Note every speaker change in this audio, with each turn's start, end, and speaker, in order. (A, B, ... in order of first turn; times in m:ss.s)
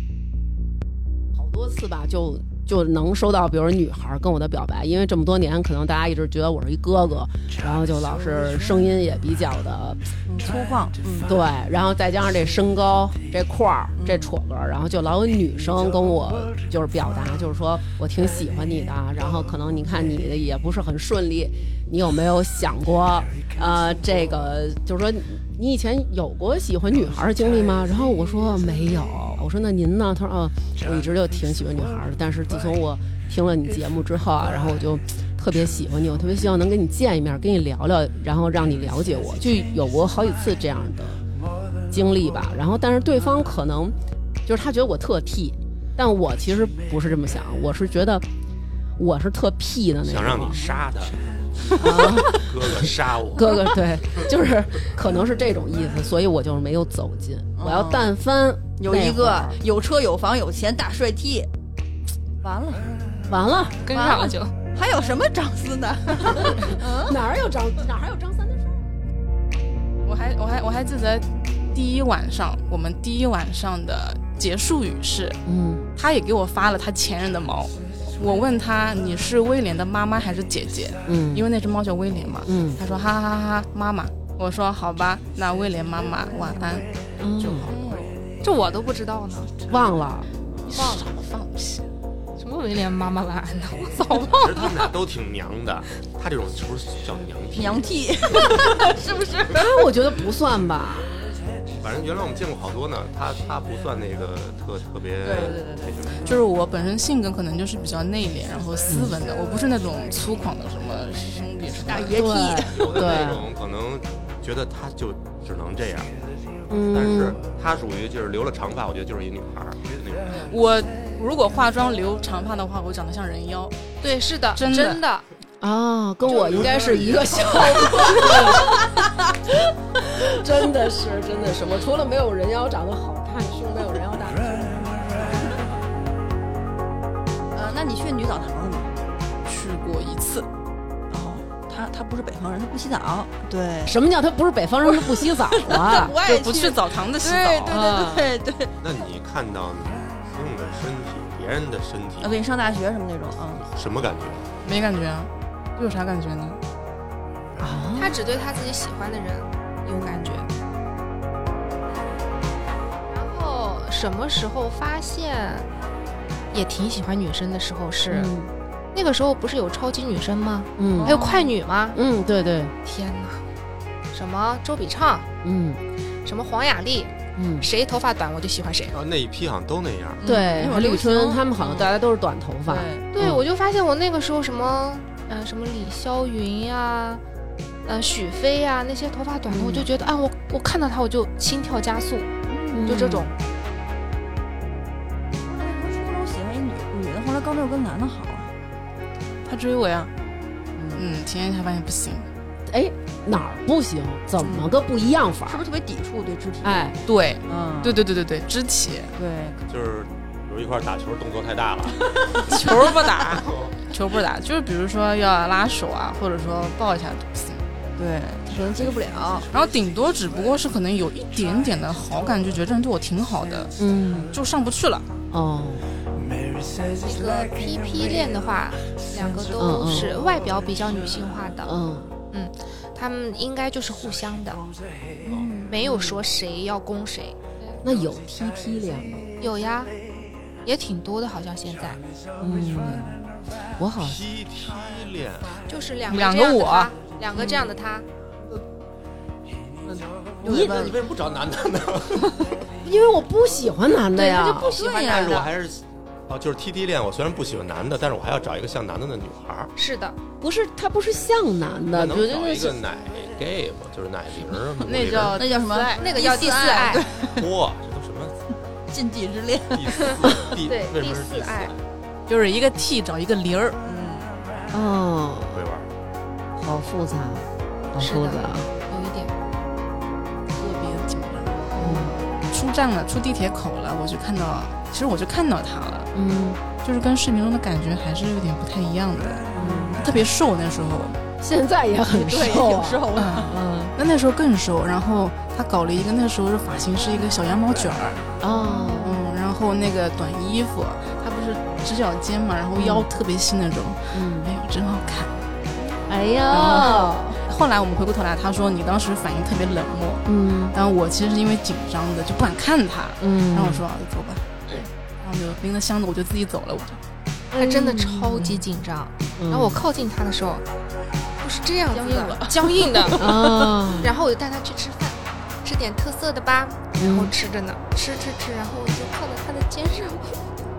0:01.3-0:10.0 A
0:10.4-0:11.2 B
0:11.2-0:41.2 A
0:41.9-0:48.2 A
0:49.0-0:50.6 A
0:50.0-0:51.5 C
0:51.8-0:59.6 A
0:52.3-0:53.7 C
0:57.6-0:58.1 B
0:58.8-1:01.5 B
1:02.4-1:02.9 B
1:03.3-1:03.9 A
1:03.9-1:04.5 D
1:03.9-1:07.2 B
1:04.0-1:04.3 E
1:06.3-1:09.0 A
1:10.0-1:15.4 E
1:15.4-1:15.8 A
1:15.9-1:26.9 E
1:21.1-1:21.5 A
1:22.4-1:22.8 A
1:27.2-1:27.7 A
1:27.5-1:28.1 E
1:27.7-1:28.1 B
1:28.4-1:29.5 D
1:29.7-1:30.3 A
1:30.6-1:31.9 E
1:30.7-1:31.1 D
1:32.4-1:34.9 D
1:34.4-1:38.5 C
1:37.5-1:39.8 B
1:39.5-1:41.1 A
1:41.8-1:46.2 C
1:45.2-1:46.4 B
1:46.2-1:52.2 E
1:48.9-1:49.2 A
1:51.8-1:53.1 B
1:52.1-1:53.5 A
1:52.7-1:56.1 C
1:56.7-1:57.4 A
1:56.9-2:00.5 C
2:00.4-2:03.9 E
2:04.0-2:05.2 D
2:04.5-2:05.0 E
2:05.6-2:08.8 A
2:06.4-2:07.7 C
2:09.5-2:15.1 A
2:17.5-2:18.9 B
2:19.4-2:20.5 E
2:21.1-2:24.0 B
2:23.8-2:26.1 A
2:24.9-2:28.7 B
2:26.2-2:28.1 E
2:28.8-2:32.4 C
2:32.2-2:33.7 B
2:33.7-2:34.5 C
2:34.6-2:36.6 E
2:37.6-2:38.1 A
2:38.0-2:40.5 D
2:39.9-2:40.3 B
2:43.1-2:45.7 D
2:46.5-2:48.3 D
2:48.1-2:48.5 A
2:48.9-2:52.0 D
2:50.8-2:51.2 A
2:50.9-2:51.5 B
2:51.9-2:52.7 A
2:52.8-2:53.4 D
2:54.1-2:55.3 D
2:55.4-2:55.8 A
2:56.2-2:59.0 D
2:57.4-2:57.7 A
2:58.9-3:00.3 C
3:00.2-3:01.9 B
3:00.2-3:03.4 A
3:02.6-3:03.1 B
3:03.1-3:07.2 D
3:07.8-3:12.3 D
3:09.5-3:09.9 A
3:12.5-3:12.9 B
3:12.7-3:13.3 A
3:12.8-3:13.3 D
3:15.5-3:18.5 B
3:19.4-3:20.1 E
3:20.8-3:21.0 B
3:20.9-3:22.3 E
3:22.7-3:25.6 A
3:24.4-3:24.8 B
3:25.4-3:26.9 B
3:26.6-3:27.0 A
3:27.0-3:29.1 E
3:27.5-3:28.0 B
3:29.2-3:29.6 B
3:29.7-3:32.4 C
3:32.3-3:37.6 E
3:33.2-3:33.8 C
3:38.0-3:39.4 B
3:39.5-3:43.7 E
3:43.8-3:44.3 A
3:44.3-3:45.1 E
3:45.3-3:45.8 A
3:47.0-3:51.7 D
3:49.6-3:50.2 A
3:51.6-3:52.1 A
3:52.3-3:54.6 D
3:55.2-3:55.7 B
3:55.6-3:57.8 D
3:57.8-3:59.3 A
3:59.4-3:59.9 D
4:00.6-4:02.0 D
4:02.4-4:03.2 A
4:03.8-4:04.2 A
4:04.0-4:05.7 C
4:05.6-4:08.1 D
4:06.1-4:06.9 E
4:09.8-4:11.0 B
4:10.4-4:11.0 A
4:10.4-4:12.4 C
4:12.8-4:14.8 A
4:14.1-4:15.5 B
4:14.8-4:19.7 C
4:19.8-4:20.2 D
4:20.4-4:22.8 A
4:21.9-4:25.4 C
4:24.8-4:26.1 E
4:25.3-4:27.5 B
4:26.0-4:27.1 D
4:27.3-4:28.4 C
4:28.9-4:30.2 B
4:29.7-4:31.8 C
4:30.5-4:31.7 D
4:32.3-4:33.8 E
4:33.8-4:34.3 B
4:34.7-4:35.6 A
4:35.5-4:35.9 C
4:36.6-4:38.7 A
4:38.0-4:39.3 D
4:40.5-4:41.8 E
4:41.8-4:42.2 A
4:42.5-4:46.1 E
4:46.1-4:46.6 A
4:46.8-4:49.5 E
4:49.5-4:50.2 A
4:49.6-4:50.0 B
4:50.0-4:51.2 E
4:51.4-4:54.0 A
4:52.1-4:53.6 B
4:53.2-4:58.3 E
4:58.4-4:59.2 A
4:58.6-4:58.9 B
4:59.0-5:05.3 E
5:02.7-5:03.1 A
5:04.1-5:04.5 A
5:06.1-5:07.4 A
5:06.5-5:17.0 E
5:10.2-5:10.8 A
5:13.2-5:13.8 A
5:17.5-5:18.5 A
5:17.5-5:20.6 D
5:19.4-5:19.8 A
5:21.4-5:23.3 D
5:21.9-5:23.2 E
5:23.2-5:24.1 A
5:23.9-5:30.5 D
5:26.9-5:27.3 A